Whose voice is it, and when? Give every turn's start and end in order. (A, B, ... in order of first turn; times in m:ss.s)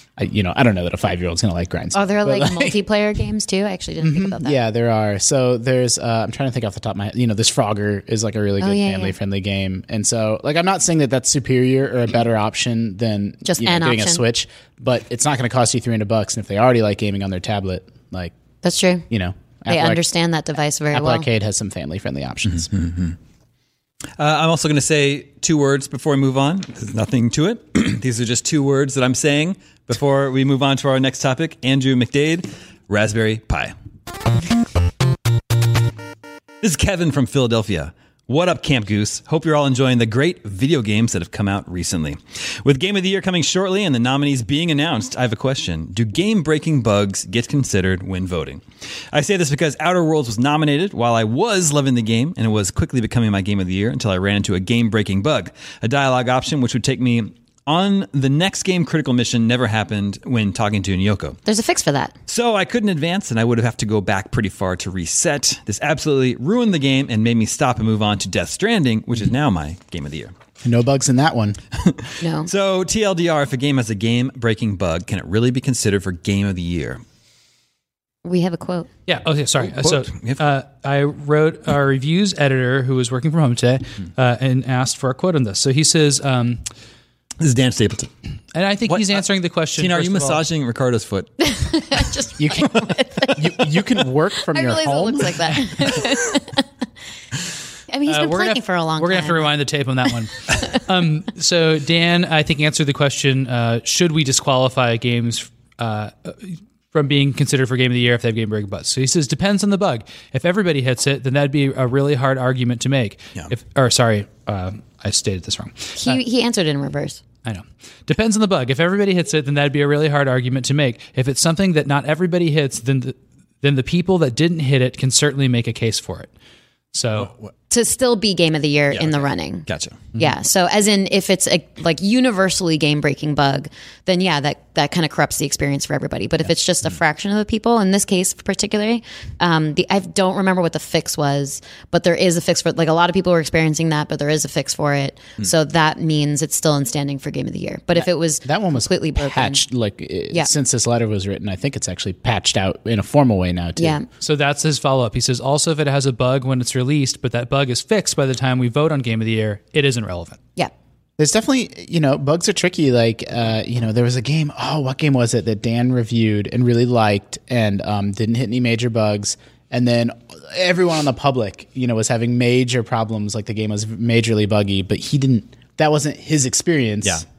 0:00.2-0:02.8 A
0:01.9-0:04.6 B
0:04.0-0:18.3 A
0:08.6-0:09.1 B
0:13.4-0:14.2 B
0:18.6-0:19.0 B
0:19.1-0:20.0 A
0:19.7-0:21.3 B
0:20.9-0:22.7 A
0:22.6-0:23.2 C
0:24.2-0:33.7 C
0:36.6-1:01.4 C
1:01.4-1:02.1 B
1:02.3-1:10.3 C
1:10.6-1:11.6 A
1:11.7-1:17.0 C
1:12.2-1:12.5 B
1:18.2-1:18.9 B
1:19.1-1:26.6 D
1:19.6-1:20.4 C
1:27.4-1:28.1 C
1:28.5-1:30.4 D
1:28.9-1:29.2 C
1:29.8-1:31.4 C
1:31.4-1:33.6 B
1:32.4-1:32.8 A
1:33.3-1:35.5 A
1:34.4-1:36.6 B
1:37.9-1:39.5 B
1:38.1-1:56.2 D
1:56.0-1:57.2 B
1:57.4-2:06.3 D
2:06.9-2:07.3 D
2:07.2-2:07.5 C
2:07.7-2:29.6 B
2:08.9-2:10.1 C
2:27.9-2:34.0 A
2:33.8-2:34.1 B
2:34.2-2:40.4 D
2:41.2-2:57.2 A